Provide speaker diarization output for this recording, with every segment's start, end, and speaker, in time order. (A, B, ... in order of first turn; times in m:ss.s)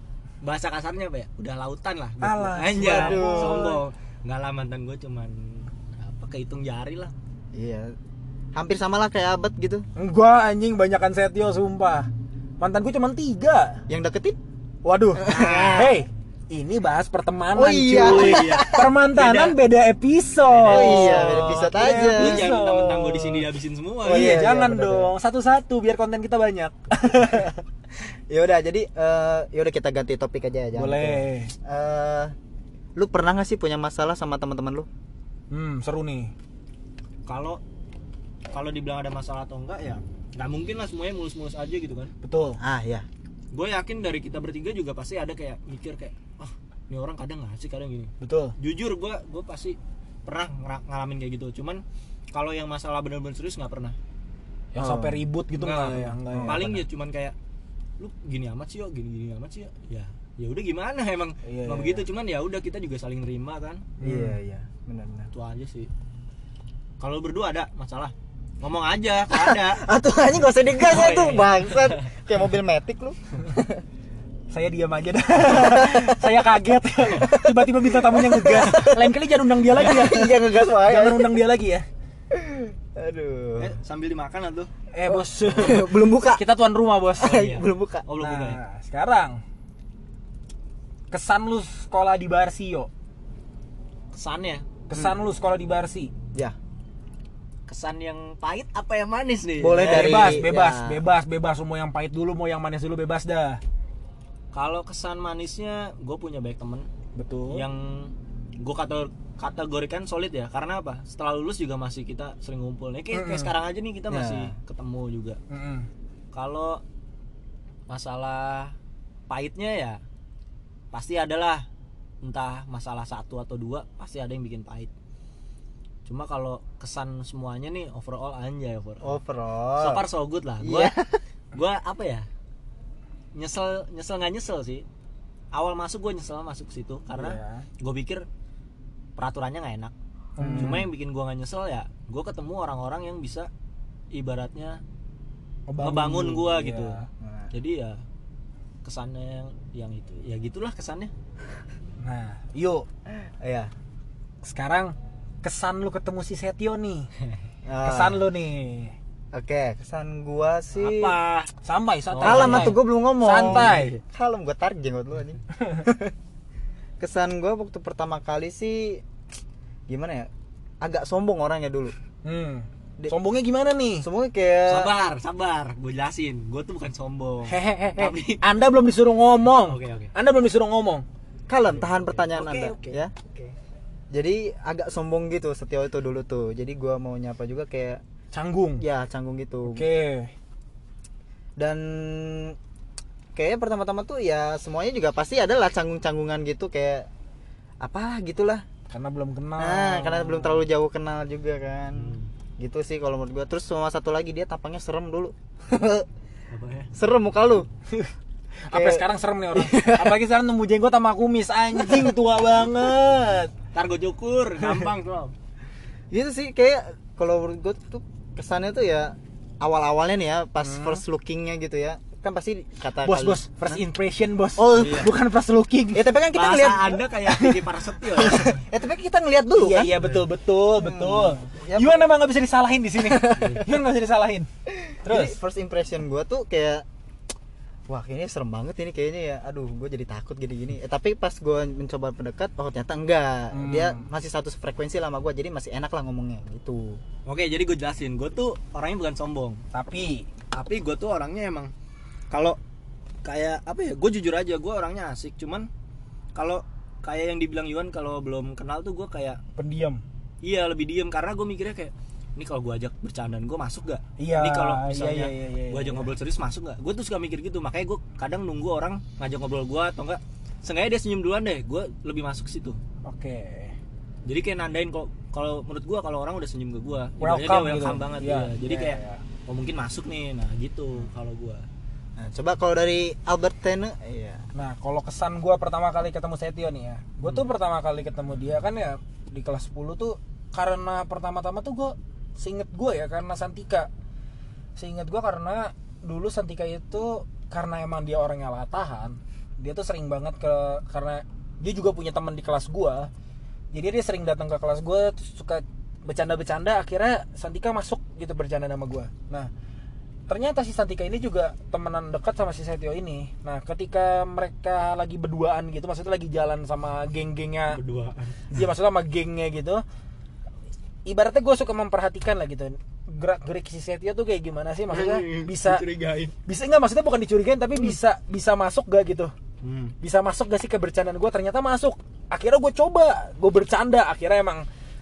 0:00.4-0:07.1 A
0:02.2-0:03.8 B
0:02.8-0:03.8 C
0:07.5-0:07.9 C
0:08.5-0:09.8 C
0:10.0-0:12.1 B
0:12.6-0:13.8 B
0:13.9-0:14.4 C
0:14.8-0:23.4 B
0:15.2-0:16.0 C
0:15.2-0:16.0 A
0:17.5-0:18.9 C
0:18.0-0:19.6 A
0:20.6-0:24.4 A
0:20.6-0:22.5 C
0:24.0-0:25.1 C
0:24.0-0:27.6 B
0:28.3-0:32.3 C
0:30.7-0:31.5 B
0:33.0-0:34.9 C
0:35.5-0:36.3 B
0:37.3-0:37.6 A
0:38.5-0:42.1 A
0:42.2-0:42.6 B
0:42.6-0:43.0 C
0:43.5-0:54.0 A
0:48.2-0:48.5 B
0:54.7-0:56.8 B
0:54.8-0:55.2 C
0:55.6-0:57.3 A
0:56.3-0:56.6 C
0:58.0-1:03.8 A
1:01.4-1:02.0 B
1:04.0-1:04.4 B
1:04.0-1:05.3 C
1:05.3-1:05.9 A
1:07.0-1:09.8 A
1:09.3-1:13.8 C
1:10.8-1:12.1 A
1:14.5-1:21.8 B
1:15.4-1:16.2 C
1:17.1-1:21.4 C
1:22.3-1:23.7 C
1:23.6-1:24.7 A
1:24.9-1:27.5 B
1:25.0-1:26.4 C
1:27.2-1:28.0 C
1:27.2-1:28.6 A
1:28.2-1:29.4 B
1:31.1-1:32.9 B
1:34.1-1:34.6 A
1:34.9-1:36.1 B
1:37.7-1:40.4 A
1:39.6-1:41.0 C
1:39.8-1:43.6 B
1:44.5-1:46.9 A
1:47.1-1:47.6 B
1:47.5-1:55.4 A
1:53.1-1:53.5 B
1:54.1-1:54.6 C
1:55.5-1:55.9 B
1:56.3-1:56.8 A
1:57.9-1:58.8 A
1:59.3-2:00.0 A
2:00.9-2:01.6 A
2:02.2-2:04.9 A
2:06.0-2:09.2 A
2:09.0-2:10.0 C
2:09.8-2:10.9 A
2:10.6-2:11.2 C
2:11.5-2:12.3 A
2:13.3-2:14.8 A
2:15.5-2:18.2 A
2:17.1-2:17.7 B
2:19.2-2:23.5 A
2:20.4-2:20.9 B
2:20.4-2:20.9 C
2:24.1-2:24.8 A
2:25.7-2:27.1 B
2:25.8-2:28.0 A
2:27.2-2:27.5 C
2:28.8-2:31.1 A
2:32.0-2:32.8 B
2:33.2-2:33.7 C
2:34.4-2:37.1 B
2:37.6-2:38.2 C
2:37.8-2:38.9 B
2:39.3-2:41.2 C
2:40.8-2:44.0 B
2:42.1-2:42.8 A
2:42.2-2:46.1 C
2:43.4-2:43.7 A
2:47.0-2:49.0 C
2:49.9-2:50.3 C
2:50.8-2:51.9 C
2:52.2-2:54.0 B
2:54.0-2:54.9 C
2:54.7-2:58.4 A
2:57.5-3:01.0 B
2:59.5-3:00.1 A
3:01.5-3:03.1 C
3:01.7-3:03.5 A
3:04.1-3:08.0 C
3:08.3-3:08.8 B
3:08.8-3:09.8 C
3:09.6-3:10.3 B
3:11.6-3:12.6 C
3:13.3-3:17.1 C
3:17.8-3:18.6 C
3:18.9-3:20.5 B
3:19.6-3:26.1 C
3:22.0-3:22.3 A
3:26.5-3:26.9 A
3:26.9-3:27.7 C
3:28.6-3:33.5 B
3:28.7-3:30.2 C
3:31.8-3:32.1 C
3:33.7-3:35.3 A
3:36.1-3:43.8 C
3:40.6-3:41.0 B
3:43.0-3:46.1 B
3:44.6-3:45.1 C
3:44.7-3:45.1 A
3:45.9-3:47.2 C
3:46.3-3:48.5 A
3:48.2-3:48.5 B
3:48.2-3:50.1 C
3:49.6-3:54.5 B
3:50.8-3:52.1 C
3:53.0-3:53.7 C
3:53.4-3:53.6 A
3:54.7-3:56.8 C
3:55.0-3:55.4 B
3:57.9-4:07.0 C
4:03.5-4:04.0 B
4:07.2-4:09.6 A
4:09.7-4:10.3 B
4:10.5-4:11.7 A
4:12.3-4:12.6 A
4:13.2-4:15.7 A
4:16.3-4:19.4 A
4:19.6-4:20.0 B
4:20.4-4:32.8 A
4:24.2-4:26.1 B
4:33.0-4:33.7 B
4:34.2-4:41.6 A
4:37.2-4:39.2 B
4:42.2-4:44.4 C
4:44.5-4:53.9 B
4:54.8-5:03.1 B
5:03.7-5:09.5 B
5:10.3-5:17.8 B
5:17.7-5:18.4 A
5:18.5-5:19.8 B
5:21.0-5:25.8 B
5:24.9-5:26.3 A
5:26.4-5:29.3 B
5:29.6-5:29.9 A
5:30.0-5:34.6 B